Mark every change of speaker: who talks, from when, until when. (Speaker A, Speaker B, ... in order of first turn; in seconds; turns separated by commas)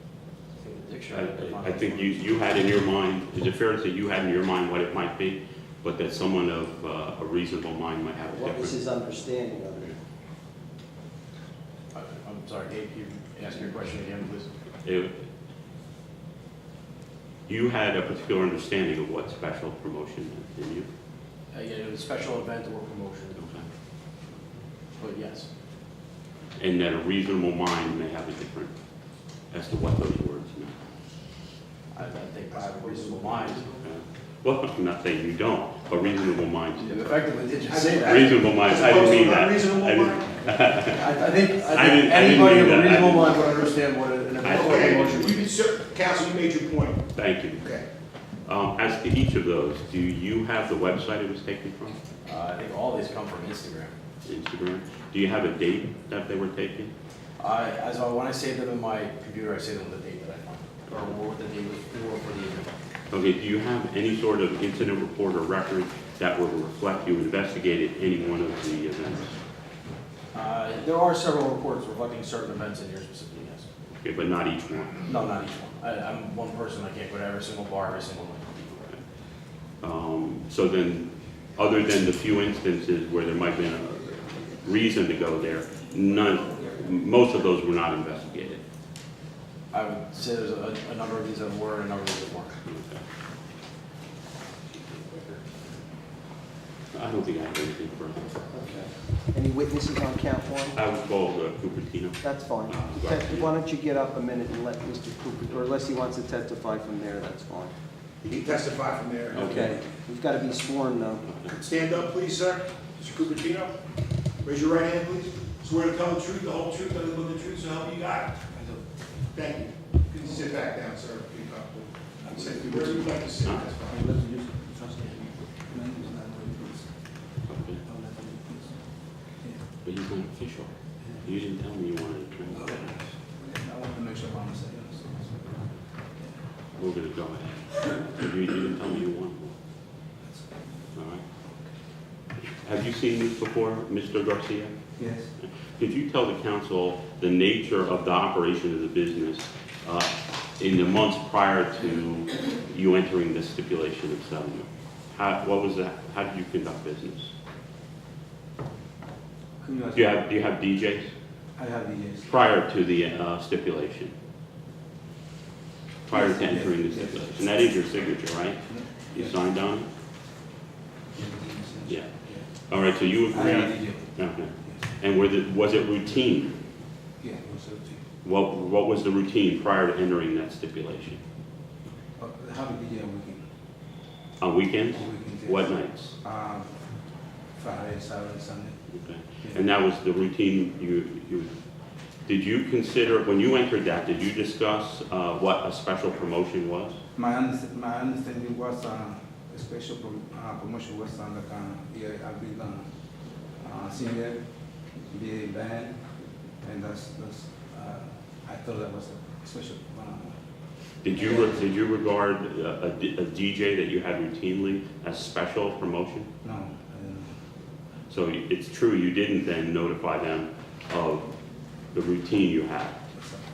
Speaker A: 0.6-2.7, Speaker B: 1.1-8.8, Speaker C: 8.3-9.9, Speaker A: 11.9-14.5, Speaker B: 14.8-15.2, Speaker B: 17.5-20.9, Speaker A: 21.5-23.4, Speaker B: 23.3-23.7, Speaker A: 25.0-25.5, Speaker B: 26.6-28.7, Speaker B: 29.5-30.8, Speaker A: 31.9-33.7, Speaker D: 32.7-33.5, Speaker B: 33.8-37.0, Speaker A: 36.8-38.3, Speaker D: 37.7-40.4, Speaker B: 38.1-41.1, Speaker A: 40.9-45.5, Speaker B: 41.7-43.3, Speaker B: 44.4-44.8, Speaker D: 44.4-47.9, Speaker B: 47.1-47.6, Speaker B: 48.4-52.0, Speaker A: 52.2-53.9, Speaker B: 54.2-56.9, Speaker A: 57.4-62.7, Speaker B: 63.1-69.4, Speaker A: 70.3-73.7, Speaker B: 74.0-75.1, Speaker A: 75.0-78.7, Speaker B: 79.8-88.6, Speaker A: 89.7-92.6, Speaker B: 92.6-93.0, Speaker A: 94.7-95.5, Speaker B: 96.9-98.4, Speaker C: 98.5-100.8, Speaker B: 100.7-103.5, Speaker C: 102.2-107.7, Speaker D: 108.2-109.6, Speaker B: 109.3-109.8, Speaker C: 109.4-111.3, Speaker B: 111.2-111.6, Speaker D: 111.5-113.7, Speaker D: 114.4-118.5, Speaker D: 119.3-124.1, Speaker A: 124.1-125.3, Speaker E: 125.5-126.9, Speaker B: 127.5-127.8, Speaker E: 127.8-128.7, Speaker B: 129.8-130.7, Speaker B: 131.2-132.8, Speaker E: 132.5-135.6, Speaker B: 136.8-139.5, Speaker B: 140.9-141.2, Speaker B: 142.6-144.7, Speaker E: 145.0-145.3, Speaker B: 145.4-157.3, Speaker E: 159.6-160.1, Speaker B: 159.9-161.1, Speaker E: 161.6-162.3, Speaker B: 162.3-164.1, Speaker B: 166.1-169.9, Speaker E: 166.1-167.4, Speaker E: 168.7-169.3, Speaker E: 171.1-172.5, Speaker B: 172.7-176.6, Speaker E: 173.3-174.8, Speaker E: 177.2-178.0, Speaker B: 178.2-181.2, Speaker E: 182.2-183.4, Speaker B: 184.4-186.2, Speaker E: 184.9-185.7, Speaker E: 186.2-186.7, Speaker E: 187.6-188.8, Speaker B: 188.9-191.5, Speaker B: 192.3-197.0, Speaker E: 197.2-202.9, Speaker E: 203.6-204.4, Speaker E: 205.1-206.0, Speaker E: 206.6-210.3, Speaker B: 211.0-216.3, Speaker E: 211.2-211.4, Speaker E: 216.4-217.3, Speaker B: 218.1-221.3, Speaker B: 221.9-223.0, Speaker E: 223.2-223.4